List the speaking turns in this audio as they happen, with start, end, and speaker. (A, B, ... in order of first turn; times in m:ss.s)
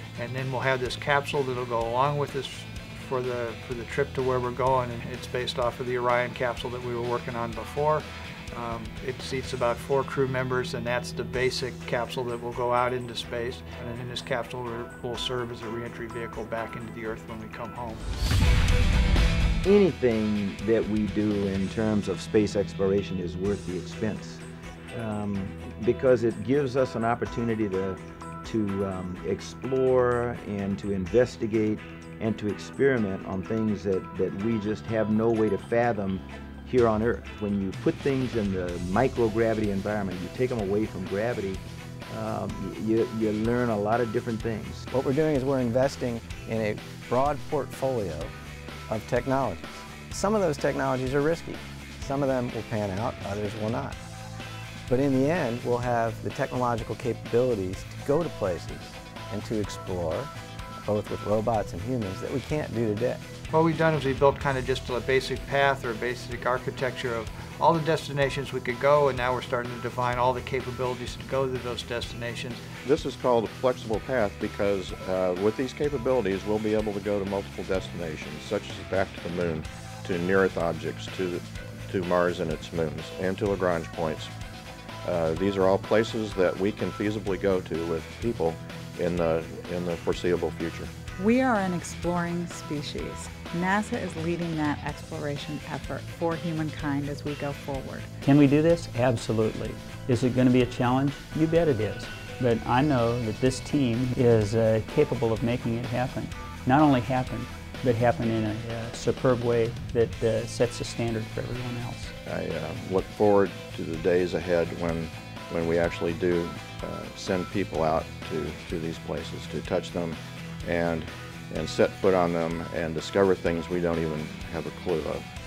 0:00.2-0:18.4 A
0:19.6-0:44.9 B
0:44.9-0:48.3 C
0:48.9-0:54.0 C
0:54.9-1:00.3 C
1:00.8-1:03.2 C
1:03.5-1:12.6 A
1:12.8-1:24.3 D
1:25.0-1:30.9 D
1:31.2-1:38.1 E
1:38.2-1:52.1 F
1:52.3-2:05.2 D